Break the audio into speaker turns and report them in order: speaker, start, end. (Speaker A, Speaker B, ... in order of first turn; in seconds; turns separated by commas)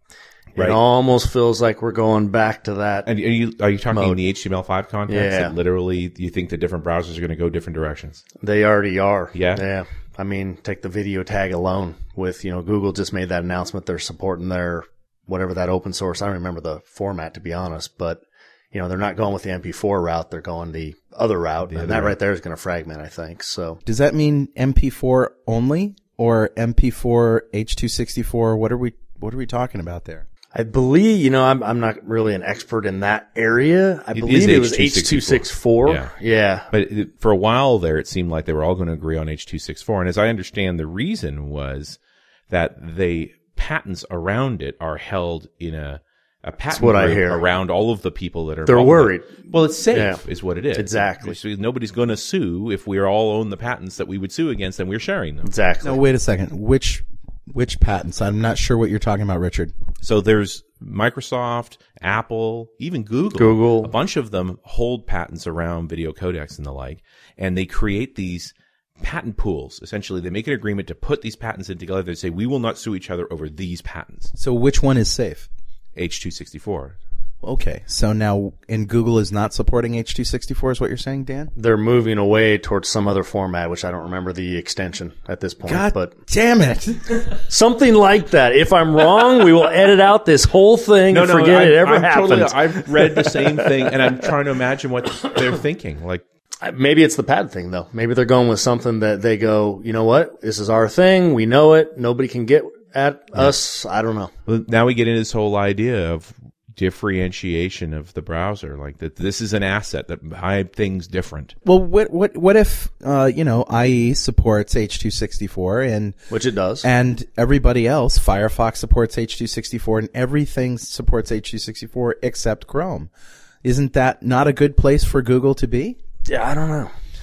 Speaker A: 0.6-3.1, Speaker B: 3.1-8.2, Speaker A: 3.9-4.2, Speaker A: 5.1-5.5, Speaker A: 8.4-23.8, Speaker B: 9.3-9.6, Speaker B: 21.7-22.1, Speaker C: 23.9-30.2, Speaker A: 30.5-36.7, Speaker B: 34.1-36.1, Speaker B: 36.7-42.0, Speaker B: 42.5-55.5, Speaker A: 46.7-47.4, Speaker A: 48.7-49.4, Speaker A: 49.9-50.2, Speaker A: 50.8-51.4, Speaker A: 55.4-56.0, Speaker C: 55.8-59.7, Speaker B: 60.0-74.3, Speaker A: 63.4-63.9, Speaker C: 74.3-75.5, Speaker B: 76.0-77.0, Speaker C: 77.4-81.5, Speaker A: 81.5-86.2, Speaker C: 85.7-87.2, Speaker A: 87.3-93.9, Speaker B: 91.1-96.2, Speaker A: 96.6-104.3, Speaker B: 104.5-111.5, Speaker C: 111.7-116.2, Speaker A: 116.3-116.9, Speaker C: 116.8-123.1, Speaker C: 123.6-126.0, Speaker A: 126.3-126.9